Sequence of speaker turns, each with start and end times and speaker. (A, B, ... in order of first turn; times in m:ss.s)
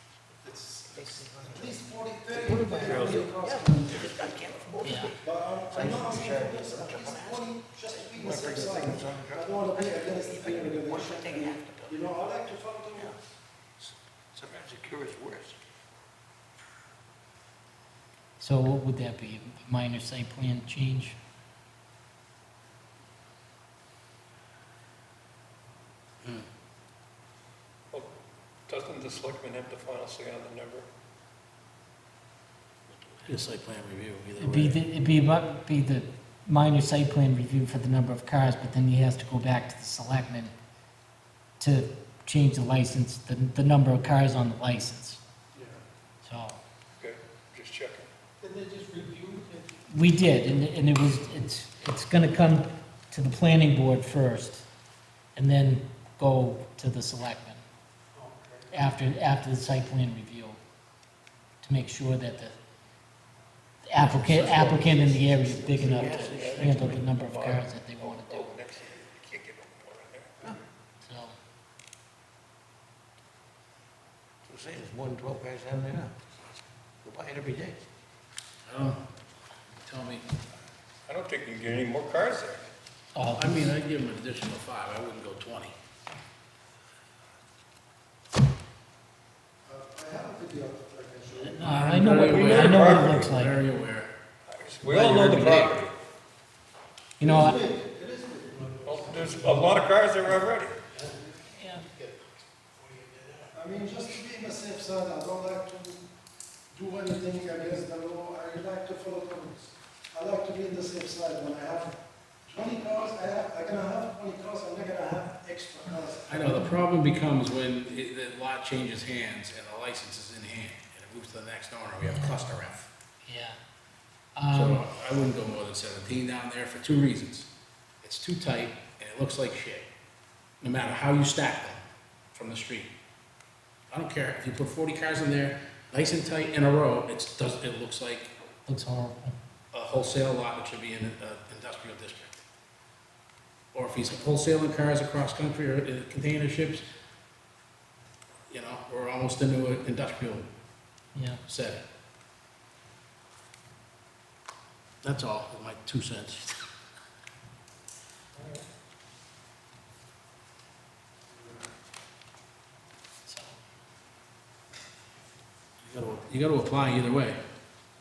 0:00.4-0:13.1 A
0:00.9-0:12.0 B
0:02.8-0:03.2 C
0:04.8-0:05.1 D
0:13.8-0:15.6 B
0:18.4-0:21.2 D
0:26.2-0:26.5 E
0:28.7-0:30.9 C
0:33.1-0:34.8 E
0:34.4-0:40.5 D
0:41.6-0:45.2 D
0:45.6-0:45.8 A
0:46.2-0:46.6 D
0:47.0-0:48.1 C
0:49.9-0:54.6 D
0:55.4-0:57.6 D
0:58.7-1:00.6 D
1:01.6-1:02.6 D
1:03.9-1:08.6 D
1:04.0-1:07.1 B
1:05.8-1:10.4 C
1:11.0-1:11.4 D
1:14.5-1:16.1 B
1:17.0-1:17.8 B
1:18.6-1:19.1 E
1:19.8-1:20.3 E
1:21.1-1:22.7 C
1:23.2-1:23.7 D
1:23.3-1:25.8 E
1:29.7-1:32.0 A
1:31.4-1:33.6 D
1:31.6-1:34.1 E
1:32.3-1:33.3 C
1:34.5-1:35.9 C
1:34.8-1:35.8 E
1:37.2-1:37.6 D
1:37.2-1:40.4 A
1:38.8-1:40.8 C
1:41.5-1:41.9 D
1:41.8-1:43.5 E
1:43.5-1:46.0 A
1:46.7-1:56.7 A
1:56.3-2:02.9 E
2:02.0-2:02.5 D
2:03.2-2:03.6 D
2:04.4-2:04.8 D
2:04.5-2:07.5 E
2:08.0-2:09.9 E
2:10.6-2:11.8 E
2:12.3-2:12.9 E
2:13.9-2:18.3 E
2:18.7-2:19.4 D
2:19.7-2:22.4 E
2:23.7-2:26.9 E
2:28.5-2:30.5 E
2:31.2-2:31.4 D
2:31.5-2:31.8 E
2:35.0-2:36.6 E
2:41.3-2:41.6 A
2:43.3-2:43.6 D
2:45.8-2:47.4 E